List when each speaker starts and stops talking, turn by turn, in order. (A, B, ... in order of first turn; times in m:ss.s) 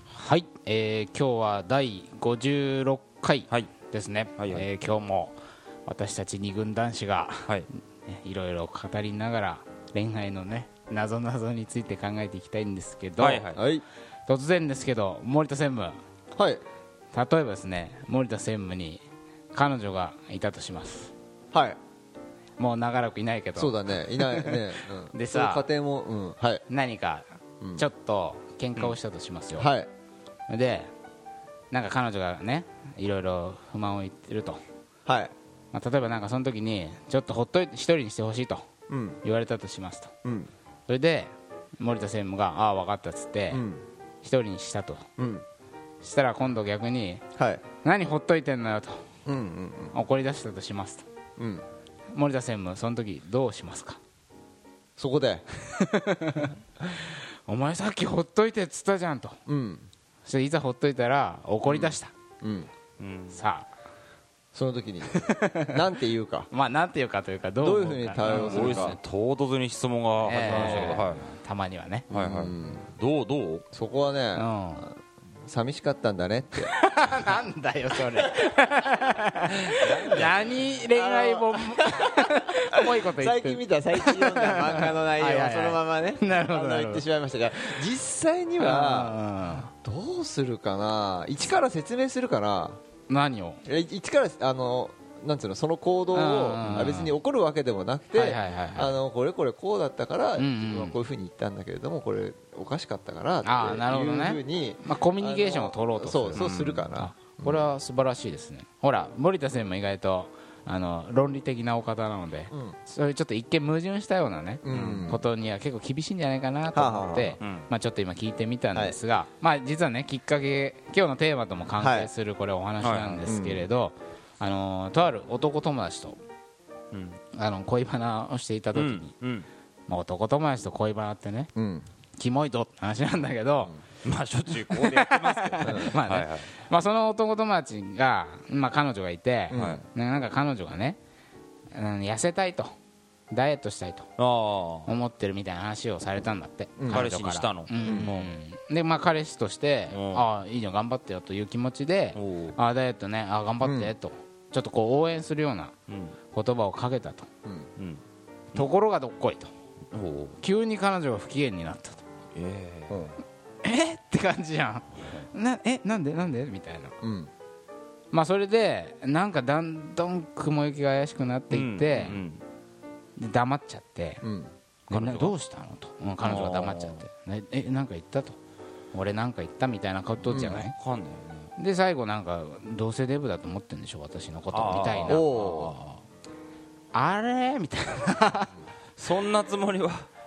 0:00.1-0:07.6 A
0:04.4-0:04.6 B
0:08.1-0:13.5 A
0:13.2-0:13.6 B
0:13.6-0:13.8 C
0:14.3-0:16.0 A
0:16.4-0:16.6 C
0:17.1-0:21.1 A
0:21.5-0:21.8 C
0:22.6-0:25.6 A
0:23.6-0:26.6 C
0:26.7-0:29.7 A
0:29.6-0:29.9 C
0:30.5-0:30.9 A
0:31.7-0:34.6 A
0:35.1-0:35.3 C
0:35.7-0:38.7 A
0:38.9-0:39.2 C
0:39.2-0:40.1 A
0:40.2-0:40.5 C
0:40.9-0:43.6 A
0:43.5-0:43.8 C
0:44.2-0:45.0 A
0:45.2-0:45.4 C
0:46.0-0:47.2 A
0:47.4-0:47.6 C
0:47.8-0:49.0 A
0:49.3-0:50.0 C
0:49.9-0:51.0 A
0:51.4-0:51.6 C
0:52.1-0:54.0 A
0:55.0-0:55.4 C
0:55.7-0:59.4 A
0:59.5-0:59.9 C
1:00.3-1:02.1 A
1:01.7-1:02.0 B
1:02.4-1:02.7 C
1:03.0-1:03.4 B
1:03.3-1:03.7 A
1:04.5-1:06.5 C
1:05.1-1:05.7 A
1:06.5-1:09.0 A
1:07.6-1:09.0 C
1:08.2-1:11.3 B
1:10.2-1:12.1 A
1:10.5-1:11.0 C
1:12.1-1:13.6 B
1:12.1-1:12.9 C
1:13.7-1:16.7 C
1:14.4-1:14.9 A
1:16.6-1:27.1 A
1:19.8-1:20.7 B
1:20.0-1:20.3 C
1:20.9-1:29.2 C
1:28.6-1:29.7 A
1:29.8-1:32.8 C
1:33.1-1:33.6 A
1:33.6-1:47.7 C
1:36.1-1:37.1 A
1:38.1-1:39.0 A
1:40.4-1:41.0 A
1:43.4-2:06.2 A
1:46.4-1:46.9 B
1:52.5-1:52.8 C
1:54.6-1:55.2 C
1:54.7-1:55.1 B
1:56.7-1:57.4 C
1:57.4-1:57.7 B
2:01.8-2:02.1 C
2:02.8-2:03.3 B
2:03.2-2:03.7 C
2:06.9-2:07.2 B
2:07.3-2:09.1 A
2:08.8-2:09.5 B
2:09.9-2:11.5 A
2:11.6-2:11.9 C
2:12.2-2:13.8 A
2:14.0-2:16.5 B
2:14.7-2:21.0 A
2:15.6-2:15.9 C
2:19.5-2:19.8 C
2:19.5-2:19.8 B
2:21.7-2:22.7 A
2:23.3-2:24.1 A
2:24.2-2:24.9 B
2:24.9-2:35.7 A
2:26.8-2:27.1 C
2:26.9-2:28.1 B
2:27.8-2:28.1 C
2:29.9-2:30.3 B
2:32.2-2:32.6 B
2:33.6-2:33.9 C
2:35.9-2:36.2 B
2:36.3-2:37.3 A
2:38.5-2:39.5 A
2:39.9-2:40.4 B
2:40.4-2:42.0 A
2:42.4-2:43.1 B
2:42.9-2:43.2 C
2:43.6-2:47.0 A
2:47.0-2:47.3 C
2:48.1-2:52.2 A
2:51.5-2:52.4 B
2:53.2-2:54.2 A
2:54.2-2:54.5 C
2:54.9-2:55.4 B
2:54.9-2:58.4 A
2:56.2-2:57.0 B
2:58.9-3:00.8 A
3:00.2-3:01.5 B
3:00.3-3:00.6 C
3:01.6-3:05.4 A
3:04.5-3:06.0 B
3:05.1-3:05.8 C
3:06.9-3:08.5 A
3:09.0-3:10.1 B